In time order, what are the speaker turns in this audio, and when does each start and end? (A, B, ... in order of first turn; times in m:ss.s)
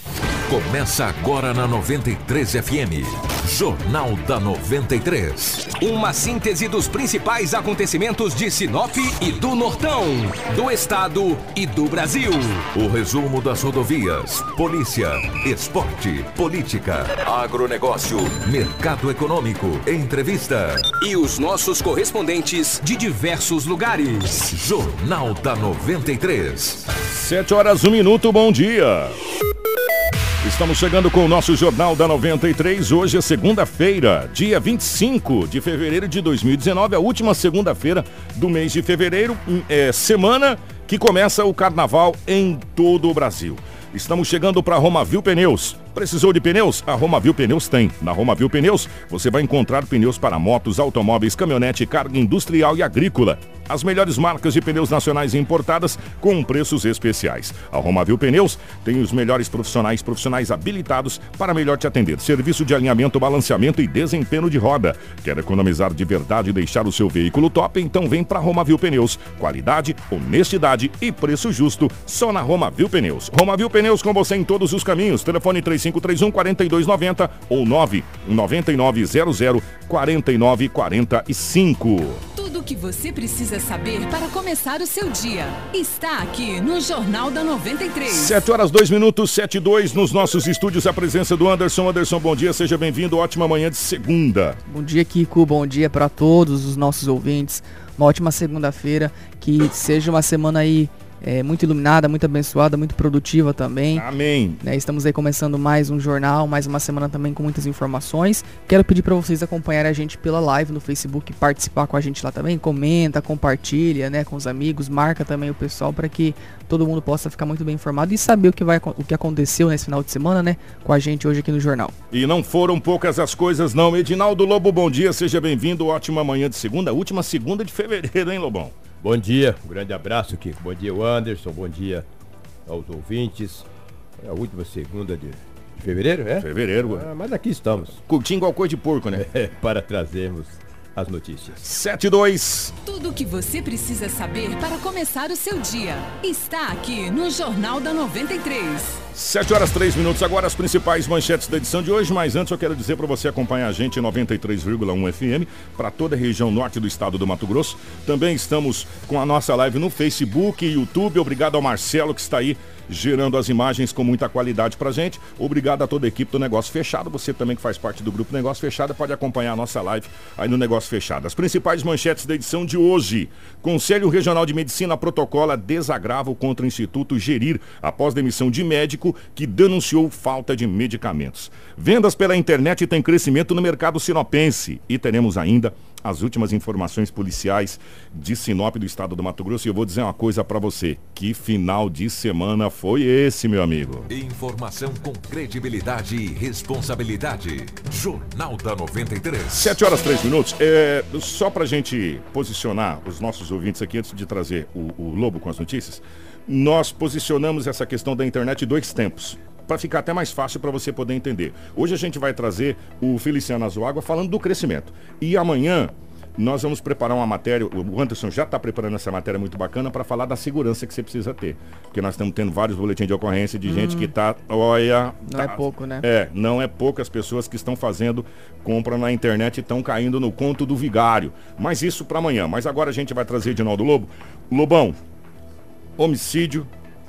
0:00.5-0:05.7 A
0:05.7-0:12.7 B
0:12.7-0:20.9 A
0:21.0-0:24.4 B
0:24.3-0:26.9 A
0:27.0-0:29.2 C
0:30.4-1:22.2 C
1:22.4-1:28.3 D
1:28.1-1:34.6 C
1:34.7-1:44.1 E
1:43.9-1:44.6 C
1:44.6-2:01.9 E
2:02.1-2:08.8 C
2:09.0-2:12.1 F
2:12.7-2:13.7 F
2:14.2-2:18.0 F
2:16.4-2:17.1 C
2:17.9-2:19.3 C
2:19.1-2:21.6 F
2:21.6-2:22.7 C
2:22.8-2:29.0 D
2:29.1-3:14.1 C
3:14.1-3:19.8 A
3:19.5-3:55.0 C
3:43.7-3:44.1 E
3:45.3-3:46.0 E
3:56.0-3:56.7 C